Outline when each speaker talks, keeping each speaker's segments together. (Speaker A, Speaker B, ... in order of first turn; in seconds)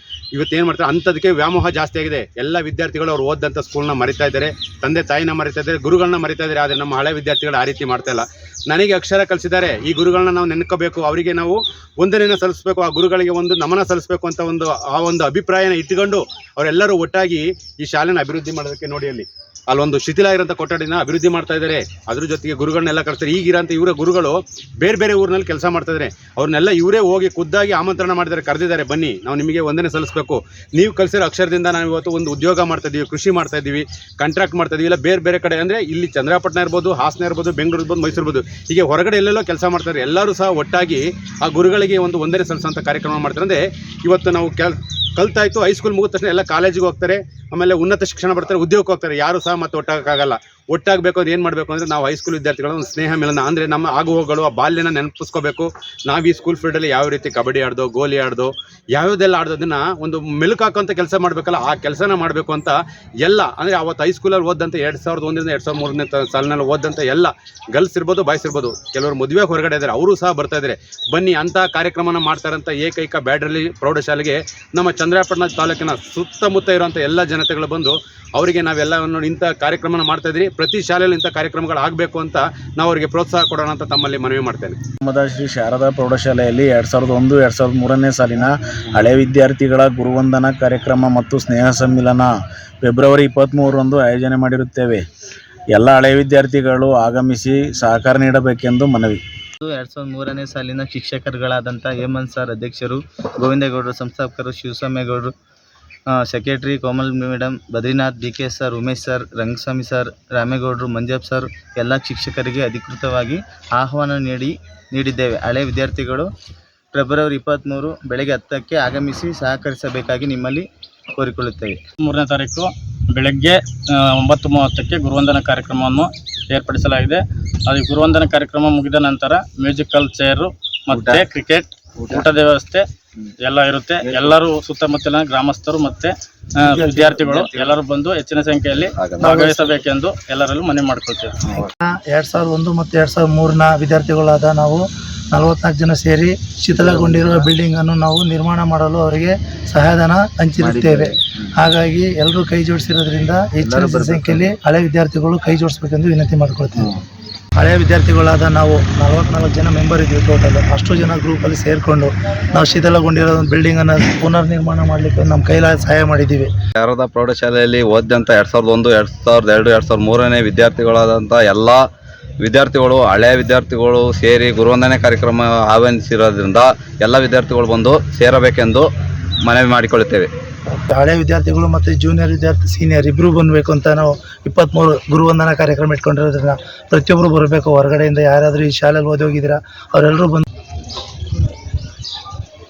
Speaker A: 0.4-84.8
Speaker B: 85.0-92.3, 92.8-95.0, 95.7-99.2
Speaker C: 99.6-105.3, 106.1-116.3, 116.9-121.8
Speaker D: 122.0-123.6, 124.1-132.8, 133.4-141.7
Speaker E: 139.0-139.3, 166.8-171.8, 172.4-178.9, 179.4-180.3
Speaker F: 141.8-156.9, 157.6-166.5, 180.7-190.5